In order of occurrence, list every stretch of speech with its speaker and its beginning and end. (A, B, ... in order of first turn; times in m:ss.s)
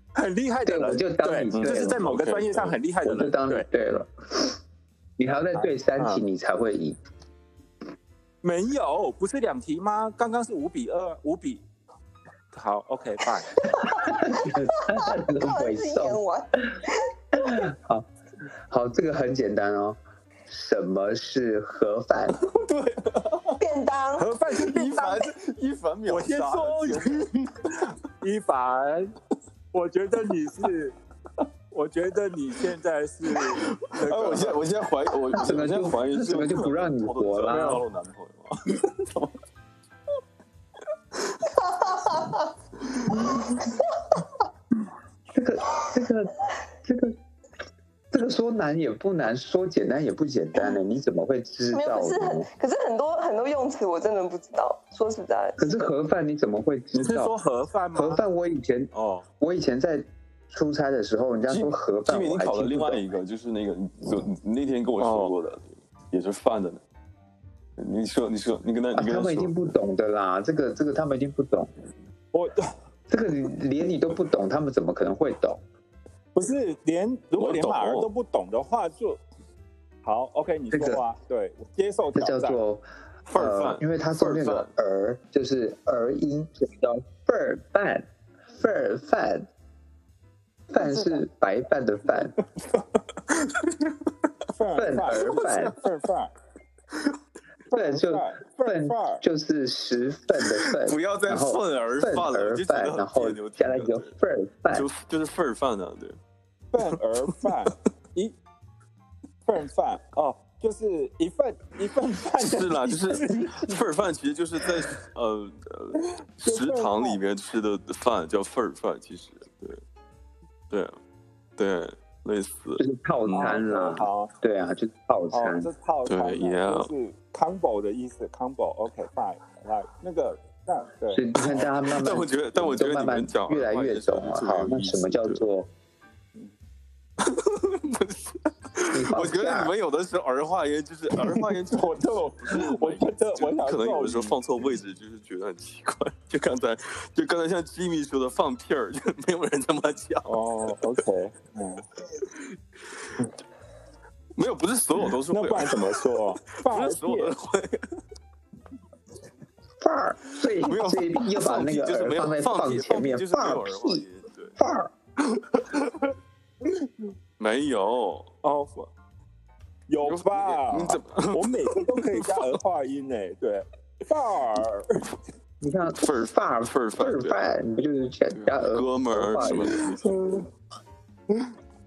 0:00.2-0:03.7 A
0:00.6-0:02.0 B
0:01.5-0:02.8 C
0:03.0-0:04.6 B
0:05.2-0:07.0 B
0:05.5-0:06.2 A
0:08.4-0:11.6 A
0:12.5-0:13.6 A
0:13.8-0:16.9 D
0:13.8-0:16.2 B
0:17.3-0:18.1 B
0:18.7-0:22.4 B
0:22.4-0:23.6 C
0:23.6-0:24.3 D
0:24.2-0:25.3 A
0:24.5-0:27.8 C
0:26.0-0:27.3 A
0:28.2-0:29.2 A
0:29.7-0:30.9 A
0:31.7-0:34.6 A
0:33.3-0:39.3 C
0:35.3-0:37.8 B
0:37.5-0:37.8 A
0:41.6-0:42.5 D
0:45.3-0:47.2 B
0:48.1-0:52.5 B
0:51.7-0:55.6 D
0:55.6-0:57.3 B
0:56.9-0:58.2 A
0:57.9-1:03.0 B
0:58.9-0:59.2 A
1:01.5-1:06.8 C
1:05.0-1:05.3 A
1:07.8-1:09.7 C
1:08.9-1:11.7 B
1:12.3-1:12.7 A
1:13.1-1:15.6 B
1:16.3-1:19.2 A
1:17.3-1:18.1 C
1:20.0-1:22.6 A
1:20.7-1:21.0 B
1:22.1-1:29.5 B
1:23.3-1:24.7 C
1:30.7-1:32.4 B
1:32.7-1:33.9 C
1:34.5-1:36.3 A
1:34.7-1:35.8 B
1:37.7-1:44.8 B
1:37.9-1:39.2 A
1:40.4-1:44.1 C
1:44.7-1:46.2 C
1:46.7-1:48.4 A
1:49.4-1:53.8 A
1:52.4-1:59.8 C
1:56.0-1:57.2 A
2:00.7-2:00.9 C
2:01.6-2:03.6 C
2:02.8-2:05.7 B
2:03.3-2:04.3 A
2:05.3-2:11.2 A
2:06.1-2:06.9 C
2:11.1-2:15.7 B
2:11.4-2:15.4 C
2:17.2-2:30.4 C
2:18.9-2:19.7 B
2:21.2-2:24.6 A
2:30.2-2:31.8 A
2:34.3-2:36.0 C
2:35.3-2:37.3 A
2:36.6-2:37.9 C
2:39.8-2:44.0 B
2:40.4-2:44.5 C
2:44.6-2:44.9 B
2:45.2-2:46.1 C
2:47.4-2:48.3 C
2:48.4-2:48.9 A
2:49.9-2:55.0 A
2:50.0-2:52.4 C
2:55.6-2:59.8 B
2:55.9-2:57.4 C
2:58.4-3:00.5 C
2:59.4-2:59.9 A